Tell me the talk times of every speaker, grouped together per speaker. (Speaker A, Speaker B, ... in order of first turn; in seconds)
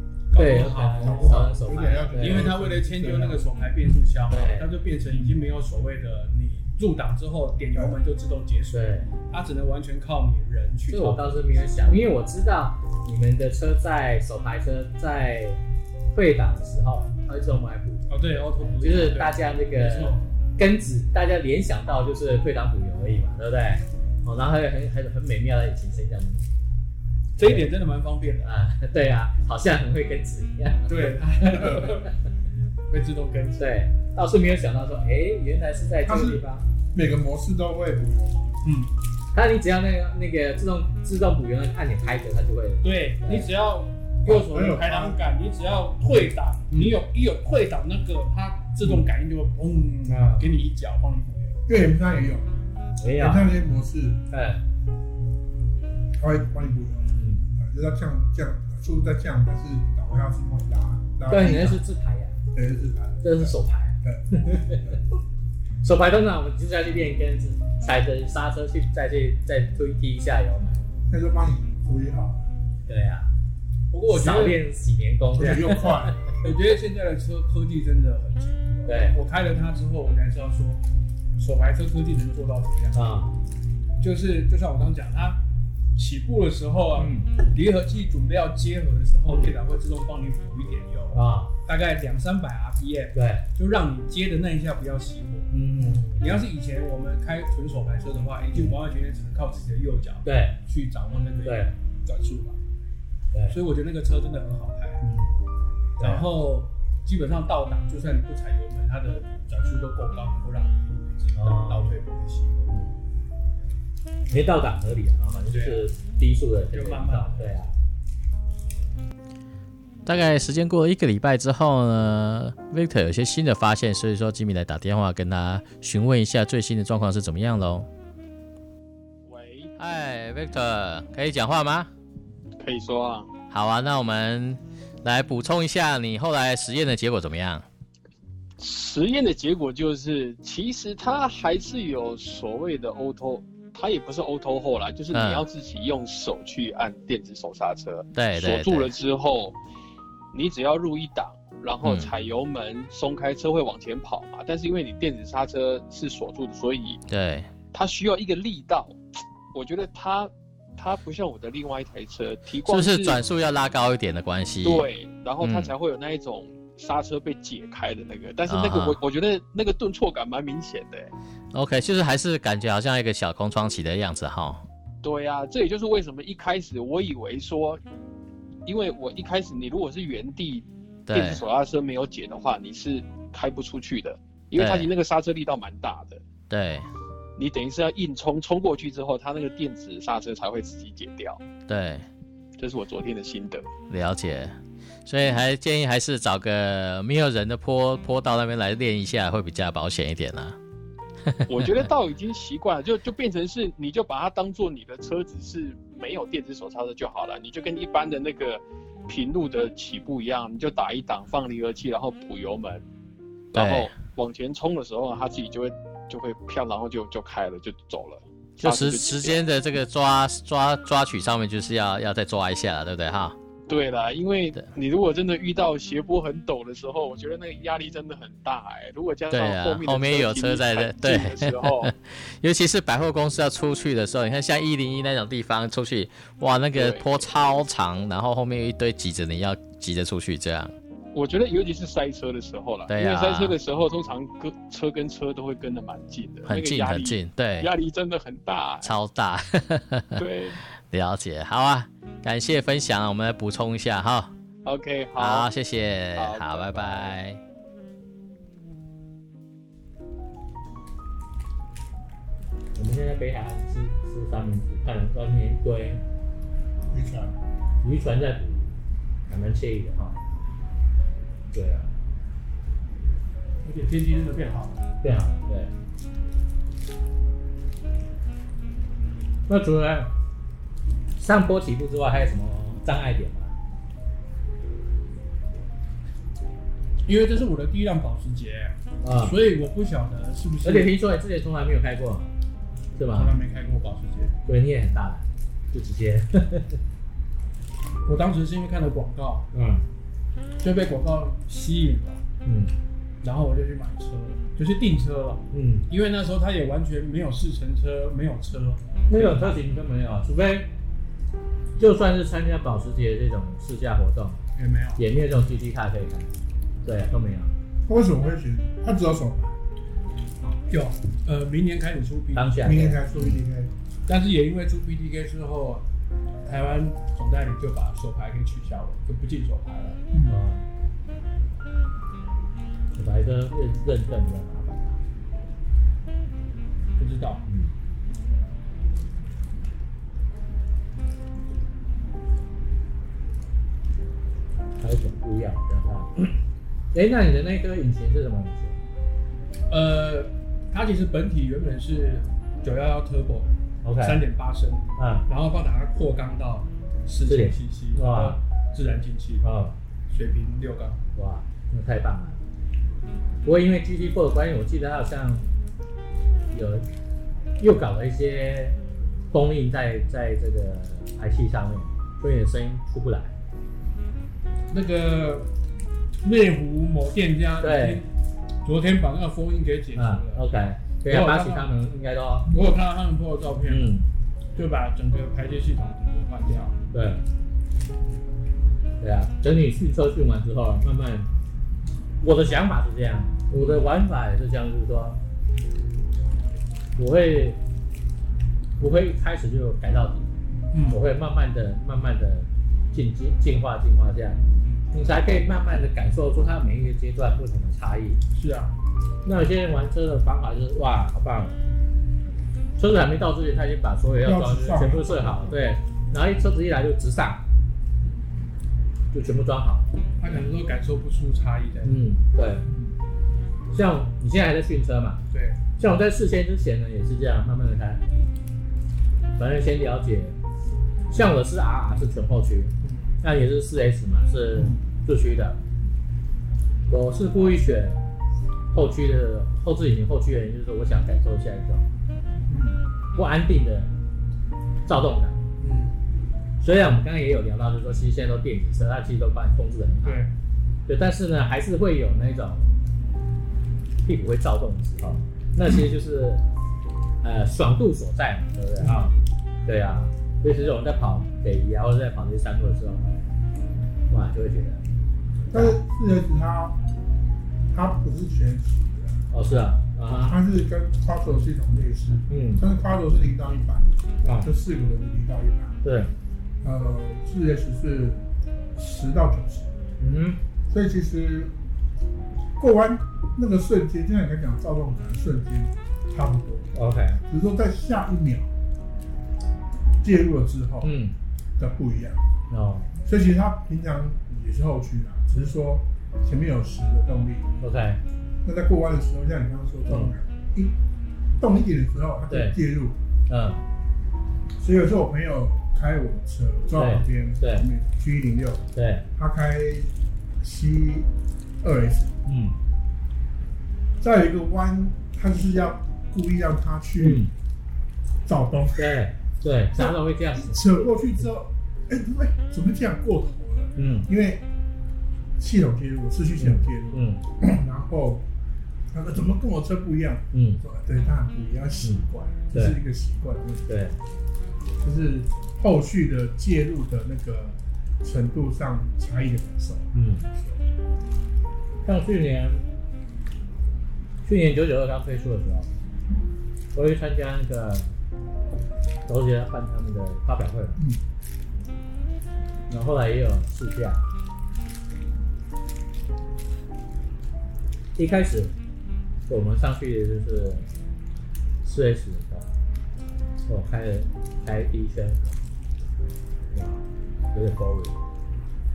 Speaker A: 0.3-1.5, 2.1-11.4, 18.1-20.2, 27.4-28.5, 30.9-32.1, 32.9-33.7, 38.6-38.9, 42.8-51.6, 73.9-74.6, 76.4-80.8, 81.4-83.2, 84.0-85.4, 85.9-95.5, 96.1-102.6, 103.5-105.0, 106.0-112.7, 115.5-115.9, 116.7-117.6, 273.6-274.8, 287.1-290.9, 293.1-294.4, 298.1-299.5, 300.6-302.2, 303.2-309.6, 314.5-315.0, 320.7-322.8, 324.1-325.9, 326.4-330.0, 337.0-337.4, 349.7-359.4, 360.1-361.0, 374.7-375.5, 376.2-378.1, 378.6-380.4, 381.0-381.7, 382.5-383.9, 384.6-386.8, 393.5-393.9, 400.7-401.0, 408.4-408.7, 420.2-422.0, 425.3-425.6, 432.8-433.1, 442.5-442.8, 445.6-445.9, 450.0-450.3
Speaker B: 0.3-2.5, 4.3-4.7, 8.7-9.1, 10.9-15.6, 16.1-18.1, 18.8-26.4, 27.4-27.7, 28.4-31.9, 33.6-36.6, 39.3-43.5, 50.1-50.5, 53.0-53.5, 54.3-54.6, 57.1-57.4, 61.3-62.4, 63.2-65.0, 65.8-70.8, 72.9-73.3, 74.1-76.1, 78.9-79.1, 82.9-83.3, 87.0-87.3, 89.3-89.5, 91.1-91.5, 93.1-93.4, 95.5-96.2, 100.2-100.5, 101.4-101.7, 105.0-105.3, 106.0-106.2, 111.4-112.0, 112.7-112.9, 114.3-117.8, 262.8-266.0, 267.8-268.7, 269.3-270.2, 271.5-271.9, 275.0-275.7, 279.5-280.1, 281.2-283.5, 289.0-289.4, 290.6-292.3, 293.0-293.3, 294.4-296.8, 299.5-299.8, 302.4-302.7, 305.5-305.9, 309.1-310.7, 311.8-314.4, 315.0-316.3, 316.9-317.5, 322.3-323.0, 330.3-330.6, 332.9-335.0, 337.5-337.7, 344.8-346.4, 346.9-348.8, 353.8-354.2, 355.0-355.2, 357.2-358.4, 359.4-359.8, 361.1-362.4, 363.4-365.4, 366.5-366.9, 367.6-368.8, 369.3-373.3, 377.6-378.0, 379.9-382.5, 383.7-384.1, 386.9-387.2, 389.0-391.3, 392.2-395.2, 397.0-397.6, 398.8-400.3, 400.9-404.4, 404.9-408.2, 409.2-411.6, 412.8-417.4, 419.1-419.9, 421.8-422.7, 423.7-425.2, 425.8-428.0, 429.4-430.4, 431.1-435.6, 436.9-438.0, 438.7-441.9, 443.1-443.9, 444.9-445.4, 446.6-450.2, 450.9-452.7, 454.0-456.4, 457.2-459.1, 459.6-463.1, 464.1-464.8, 465.5-465.8, 469.3-470.4, 472.3-472.6, 474.2-474.5, 475.8-476.1, 480.0-480.4, 486.8-487.2, 490.8-491.1, 492.5-492.9, 497.6-498.0, 502.3-502.6, 503.3-503.6, 506.7-507.7, 508.8-509.1, 512.2-512.5, 517.0-517.3, 518.8-520.9, 523.8-524.1, 526.4-527.2, 530.3-530.6, 531.8-532.8, 533.7-533.9, 539.9-540.2, 541.8-542.6, 544.2-545.7, 546.7-547.9, 549.1-550.8, 552.7-554.0, 558.0-558.5, 559.3-560.6, 561.6-562.5, 563.5-565.4, 566.5-566.8, 567.3-568.0
Speaker C: 0.9-3.5, 7.7-8.0, 36.0-38.5, 44.2-45.2, 51.7-52.5, 53.1-54.2, 56.1-61.8, 62.5-65.0, 71.1-72.5, 75.3-76.3, 266.9-267.4, 317.9-319.6, 322.6-323.7, 330.1-330.4, 414.2-415.6, 422.7-422.9, 465.5-466.8, 467.7-469.2, 470.2-475.8, 476.6-478.2, 478.8-479.7, 480.7-481.5, 482.6-486.7, 487.2-488.5, 490.0-490.9, 491.6-492.2, 493.0-497.5, 498.4-500.7, 501.4-503.0, 504.6-508.6, 509.1-511.1, 511.6-512.1, 514.0-517.2, 518.2-519.0, 519.7-524.4, 525.4-528.3, 528.9-533.7, 534.8-540.6
Speaker D: 120.0-127.9, 129.8-131.9, 133.5-137.6, 145.1-145.4, 148.1-148.9, 151.8-152.1, 157.1-157.5, 162.6-164.9, 165.4-165.7, 168.5-169.0, 171.5-174.6, 181.1-181.4, 184.6-184.9, 186.5-186.9, 191.7-192.1, 193.9-200.6, 201.3-201.9, 213.5-213.9, 218.6-223.4, 229.3-240.7, 242.9-243.6, 246.4-247.7, 248.8-250.2, 250.9-254.3, 255.2-257.4
Speaker E: 129.2-129.7, 132.6-133.3, 138.6-149.6, 150.3-157.0, 157.7-159.0, 159.5-163.2, 164.6-171.1, 175.0-177.8, 178.6-186.2, 187.4-191.4, 192.6-193.7, 201.5-212.8, 213.5-219.4, 223.7-231.9, 236.7-237.1, 241.1-248.9, 250.2-250.6, 254.6-255.5, 256.1-257.1